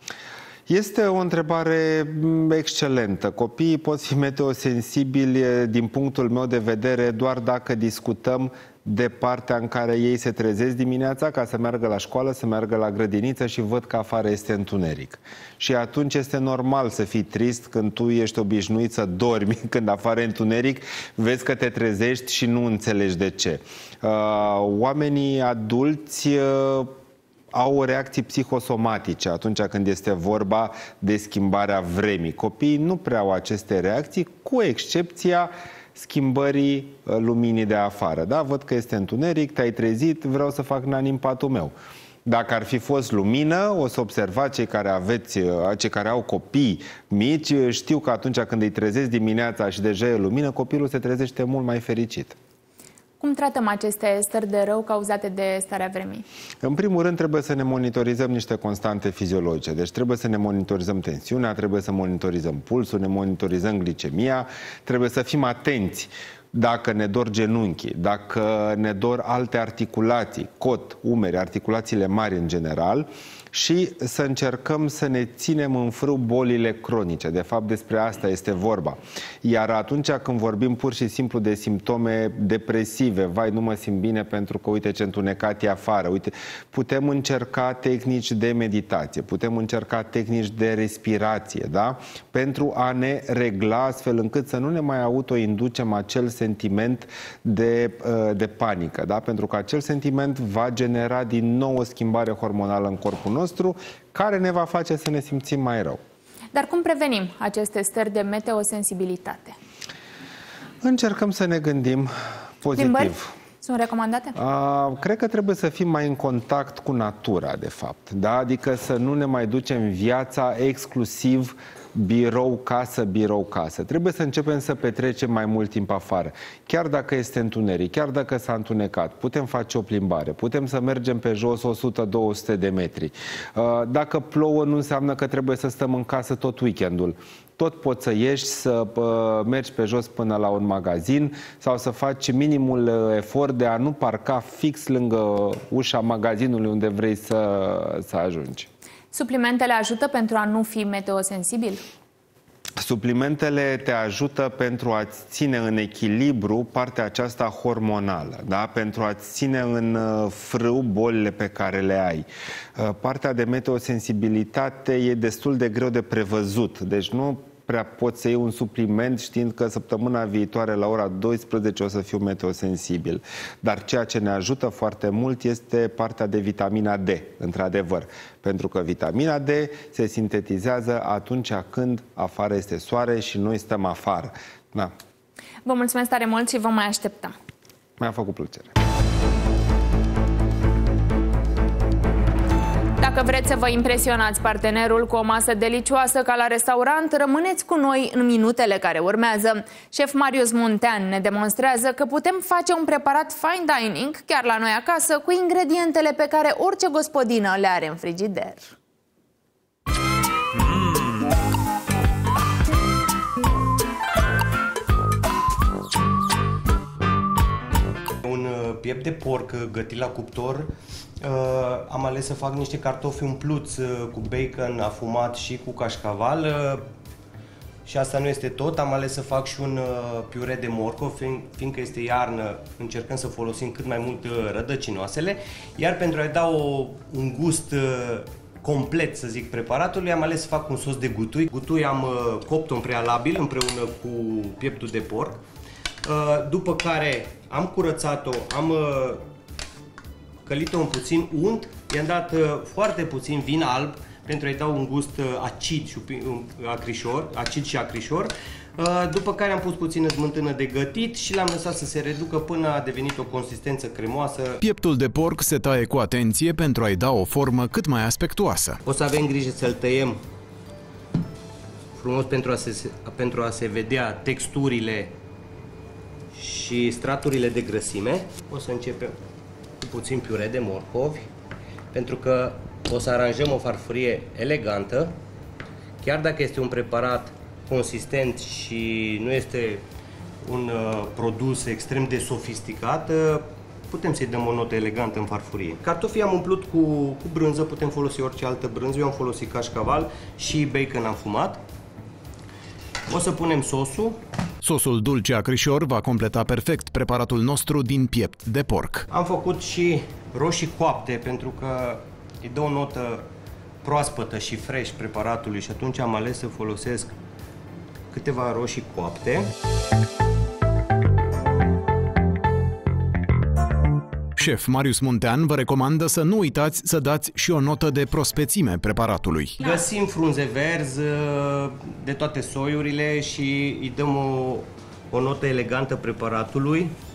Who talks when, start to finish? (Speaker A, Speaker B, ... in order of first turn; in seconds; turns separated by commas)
Speaker A: 0.7-26.9, Speaker A: 27.5-41.7, Speaker A: 42.2-52.4, Speaker B: 53.2-56.2, Speaker A: 56.6-106.0, Speaker B: 106.5-109.5, Speaker A: 110.8-113.3, Speaker B: 112.7-114.3, Speaker A: 114.3-148.7, Speaker B: 149.1-151.8, Speaker A: 152.8-184.9, Speaker B: 185.6-187.3, Speaker A: 188.0-188.7, Speaker B: 193.0-208.7, Speaker C: 218.2-226.8, Speaker C: 227.8-245.4, Speaker C: 246.0-249.2, Speaker C: 250.4-264.6, Speaker D: 264.6-268.8, Speaker C: 268.8-270.2, Speaker C: 271.9-275.1, Speaker C: 276.3-279.2, Speaker C: 279.8-281.2, Speaker C: 281.9-285.2, Speaker C: 286.0-289.8, Speaker C: 290.4-301.6, Speaker C: 303.1-304.2, Speaker D: 304.6-309.0, Speaker C: 309.1-313.3, Speaker C: 313.8-317.1, Speaker C: 318.1-319.5, Speaker D: 324.4-329.6, Speaker C: 329.6-336.9